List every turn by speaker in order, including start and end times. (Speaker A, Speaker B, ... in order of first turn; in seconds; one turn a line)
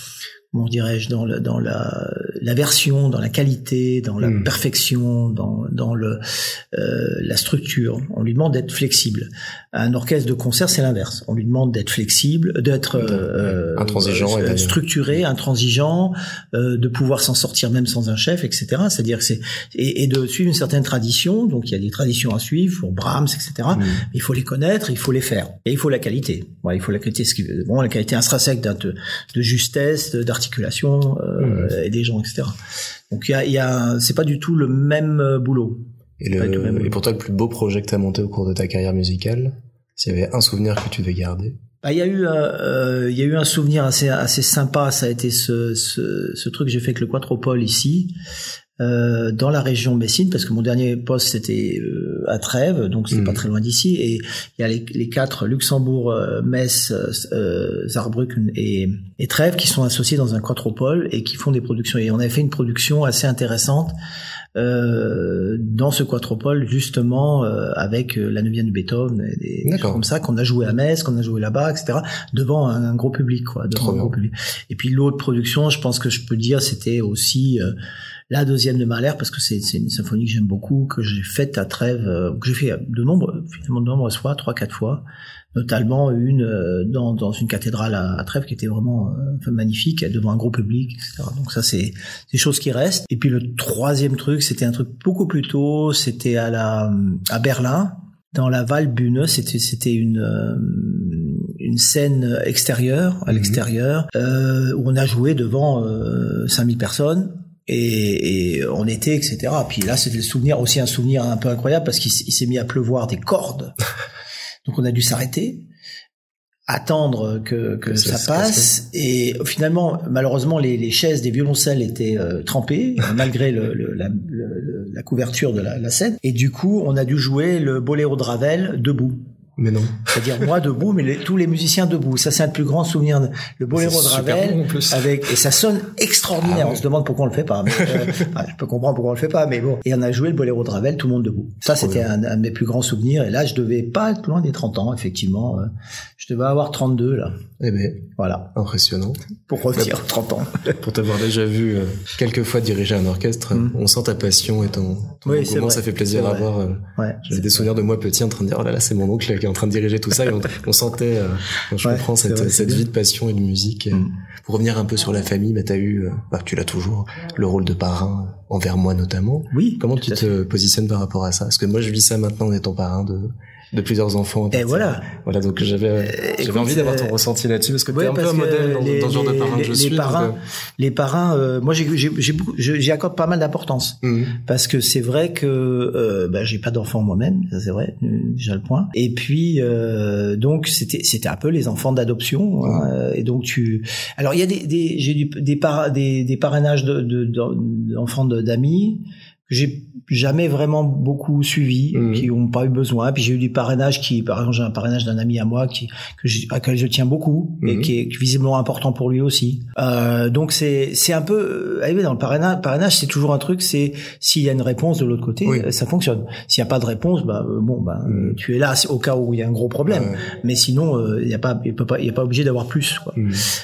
Speaker A: 0.5-6.2
Speaker A: 6.7-32.5
Speaker B: 13.0-14.8
Speaker B: 23.7-24.0
Speaker B: 31.4-31.7
Speaker A: 33.1-35.8
Speaker B: 36.2-41.6
Speaker A: 36.4-37.0
Speaker A: 41.8-48.1
Speaker A: 48.8-64.0
Speaker B: 53.1-53.4
Speaker A: 64.6-77.7
Speaker B: 69.7-70.0
Speaker B: 73.8-74.2
Speaker A: 78.3-113.7
Speaker B: 103.3-103.6
Speaker A: 114.7-115.7
Speaker A: 116.7-129.2
Speaker B: 117.9-118.7
Speaker B: 129.6-130.1
Speaker A: 130.1-147.4
Speaker B: 133.7-135.1
Speaker B: 136.4-136.8
Speaker B: 137.8-138.1
Speaker B: 141.7-142.1
Speaker B: 147.6-149.9
Speaker A: 148.2-148.5
Speaker A: 149.5-150.8
Speaker B: 150.8-180.4
Speaker A: 155.2-157.7
Speaker A: 161.8-162.9
Speaker A: 169.5-170.3
Speaker A: 174.5-175.1
Speaker A: 176.0-177.1
Speaker A: 177.9-223.2
Speaker B: 184.0-184.3
Speaker B: 201.9-202.3
Speaker B: 207.6-207.9
Speaker B: 218.1-218.4
Speaker B: 219.9-220.2
Speaker B: 223.2-223.4